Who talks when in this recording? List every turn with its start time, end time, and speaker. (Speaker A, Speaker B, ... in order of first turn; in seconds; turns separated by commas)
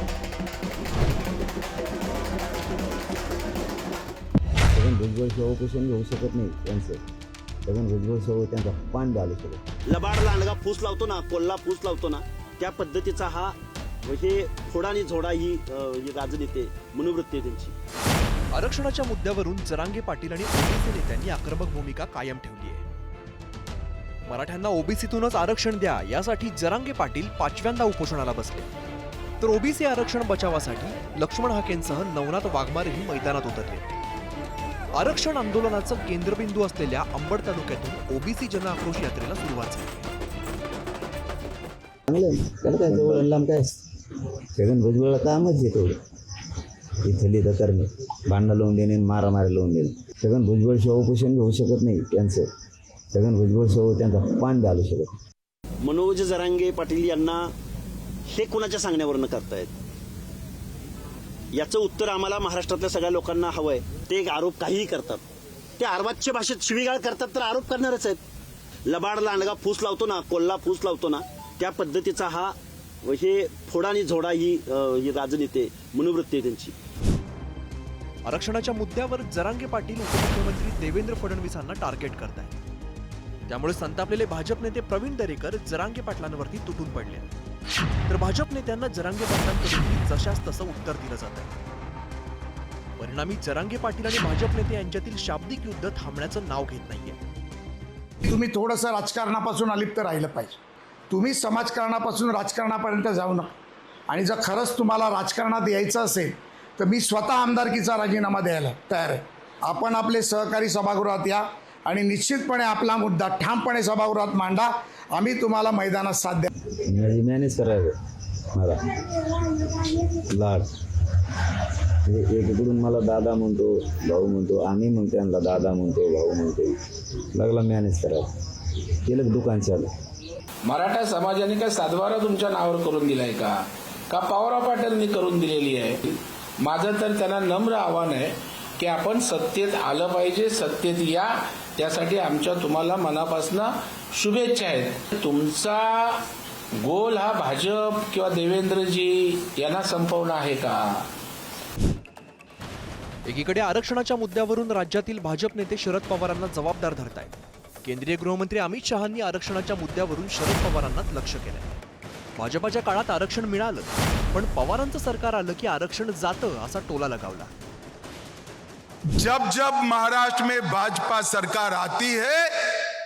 Speaker A: 4.7-7.0, Speaker A: 7.7-9.6, Speaker B: 9.9-13.5, Speaker B: 14.1-17.7, Speaker C: 18.5-22.8, Speaker C: 24.2-28.7, Speaker C: 29.4-33.9, Speaker C: 34.9-40.1, Speaker A: 42.1-43.8, Speaker A: 44.5-45.9, Speaker A: 47.0-52.5, Speaker A: 53.1-55.1, Speaker B: 55.8-57.4, Speaker B: 58.3-59.7, Speaker B: 61.5-65.2, Speaker B: 65.8-68.2, Speaker B: 68.9-72.5, Speaker B: 73.1-76.7, Speaker C: 78.2-82.5, Speaker C: 83.5-87.3, Speaker C: 88.0-91.5, Speaker C: 93.0-97.2, Speaker D: 98.2-100.6, Speaker D: 101.1-103.5, Speaker D: 104.1-116.5, Speaker A: 116.8-117.9, Speaker A: 118.5-120.7, Speaker A: 122.0-126.8, Speaker A: 127.3-128.3, Speaker A: 129.0-129.9, Speaker E: 130.6-133.6, Speaker E: 134.1-146.2, Speaker E: 146.8-151.0, Speaker C: 153.2-161.7, Speaker C: 162.4-167.5, Speaker F: 169.2-172.5